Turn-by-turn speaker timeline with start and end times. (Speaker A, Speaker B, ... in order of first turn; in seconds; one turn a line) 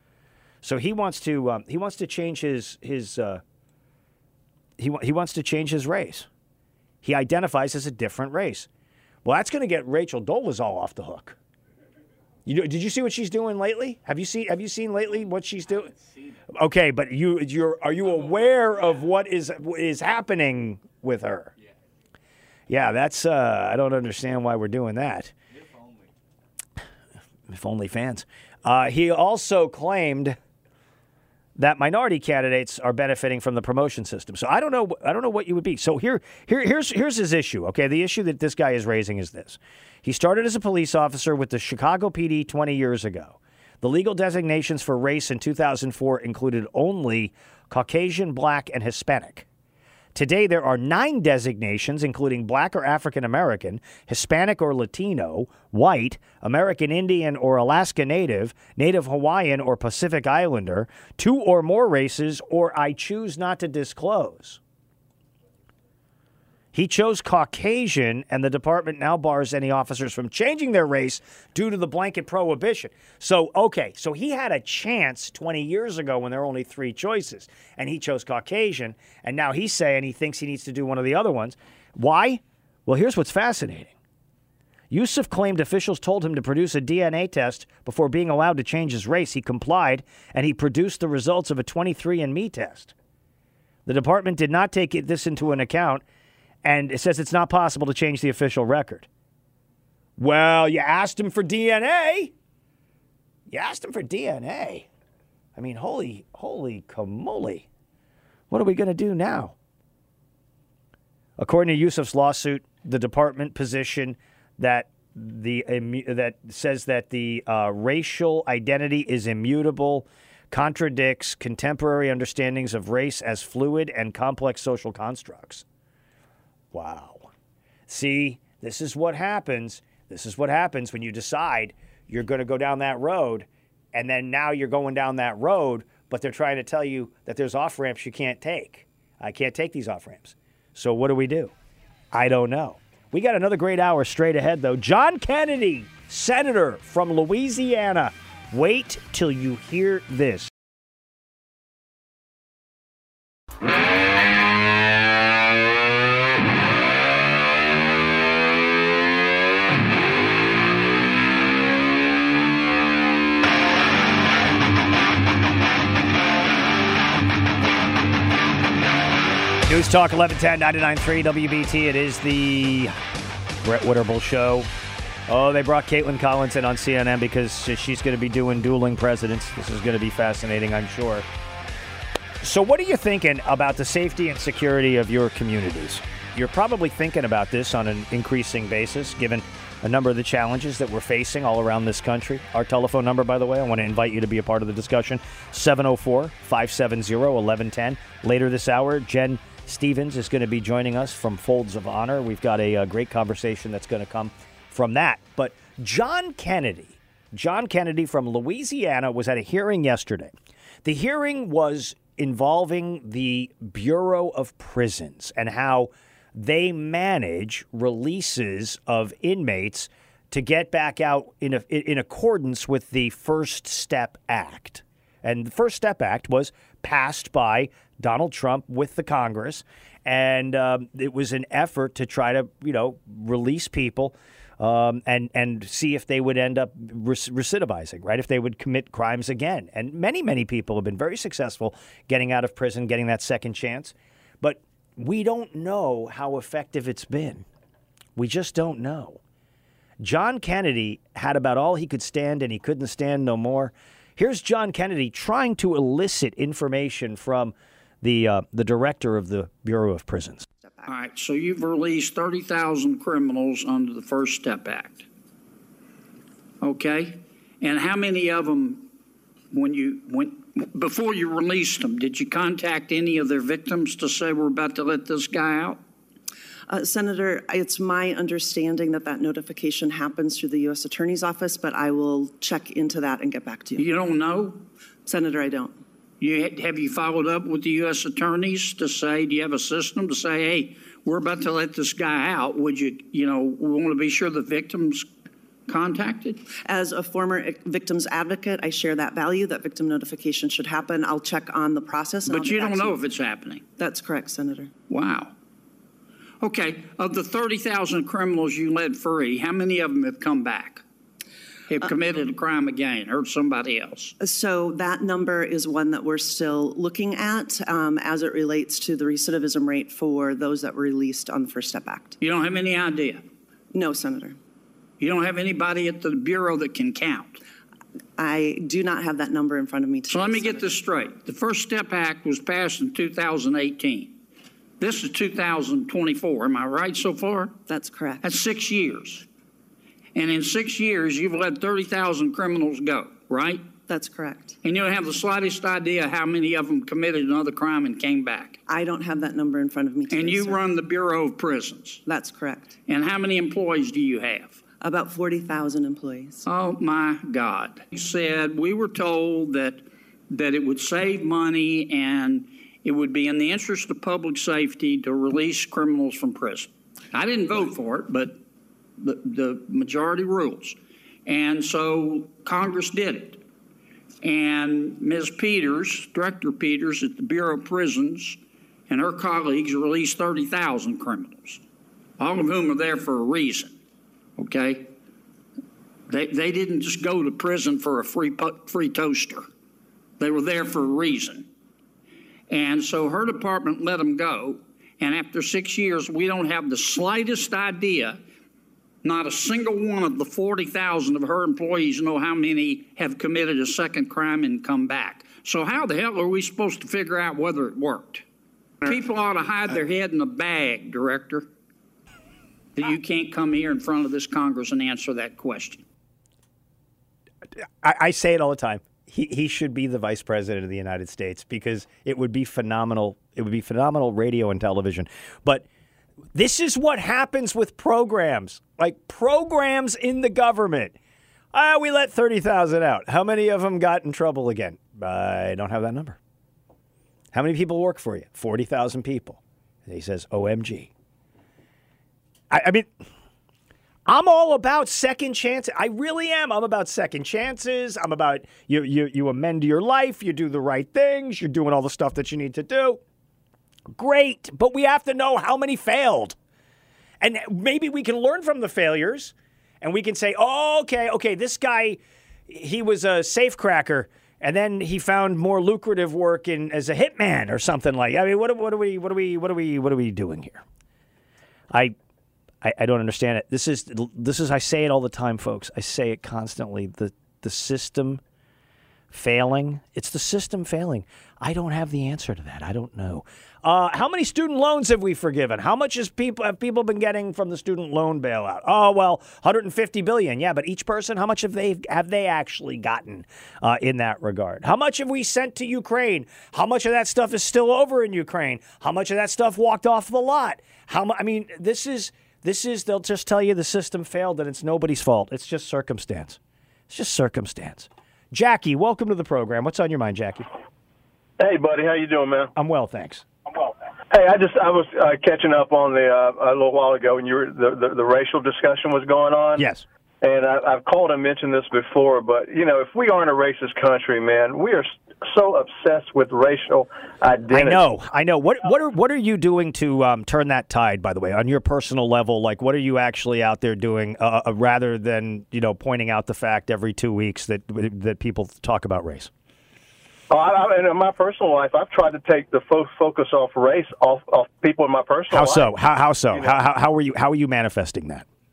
Speaker A: 0.6-3.4
Speaker A: 4.8-6.3
Speaker A: 7.0-8.7
Speaker A: 9.2-11.4
Speaker A: 12.5-15.9
Speaker A: 16.5-21.5
Speaker A: 22.7-25.3
Speaker A: 27.5-30.4
Speaker A: 31.6-49.5
Speaker A: 50.1-64.6
Speaker A: 66.7-83.9
Speaker A: 84.9-92.9
Speaker A: 93.9-96.0
Speaker A: 96.6-99.1
Speaker A: 100.2-102.3
Speaker A: 103.5-104.9
Speaker A: 105.6-107.7
Speaker A: 108.5-109.5
Speaker A: 111.4-125.6
Speaker A: 126.7-127.3
Speaker A: 127.9-141.5
Speaker A: 142.1-150.5
Speaker A: 169.7-172.9
Speaker A: 173.6-174.7
Speaker A: 175.3-181.2
Speaker A: 182.4-247.5
Speaker A: 248.2-249.2
Speaker A: 250.0-260.4
Speaker B: 260.6-260.9
Speaker C: 260.8-265.1
Speaker C: 266.6-268.9
Speaker C: 269.5-275.8
Speaker B: 276.7-283.9
Speaker C: 283.8-284.6
Speaker B: 285.1-285.8
Speaker C: 286.2-295.1
Speaker C: 295.7-296.4
Speaker B: 296.6-303.0
Speaker C: 302.3-303.6
Speaker B: 303.8-304.7
Speaker C: 304.9-305.3
Speaker C: 306.4-310.8
Speaker C: 311.7-314.1
Speaker B: 314.2-322.2
Speaker C: 322.2-323.2
Speaker B: 323.7-324.4
Speaker C: 325.0-327.4
Speaker B: 328.2-330.7
Speaker C: 330.1-334.2
Speaker C: 334.8-337.6
Speaker B: 337.6-338.2
Speaker C: 338.2-339.3
Speaker C: 340.1-343.7
Speaker B: 343.9-344.6
Speaker C: 344.6-348.6
Speaker B: 348.7-350.6
Speaker C: 350.1-352.0
Speaker B: 352.1-352.8
Speaker C: 352.9-354.6
Speaker B: 354.8-356.5
Speaker C: 356.4-368.4
Speaker C: 369.0-373.4
Speaker C: 374.2-381.6
Speaker C: 382.2-383.8
Speaker C: 384.4-384.9
Speaker C: 386.1-389.5
Speaker C: 390.2-391.5
Speaker C: 392.5-398.2
Speaker C: 399.0-408.2
Speaker C: 408.8-411.5
Speaker C: 412.8-415.8
Speaker A: 417.8-425.6
Speaker A: 426.3-431.0
Speaker A: 431.5-436.2
Speaker A: 437.3-440.9
Speaker A: 442.5-442.9
Speaker A: 444.1-453.0
Speaker A: 453.9-456.4
Speaker A: 457.2-470.6
Speaker A: 472.6-478.2
Speaker A: 479.1-506.4
Speaker A: 506.9-510.5
Speaker D: 511.4-512.5
Speaker A: 512.6-513.2
Speaker D: 514.1-519.7
Speaker A: 519.6-519.8
Speaker D: 520.2-527.9
Speaker A: 527.5-539.3
Speaker D: 540.3-545.7
Speaker A: 545.3-548.2
Speaker D: 546.3-546.6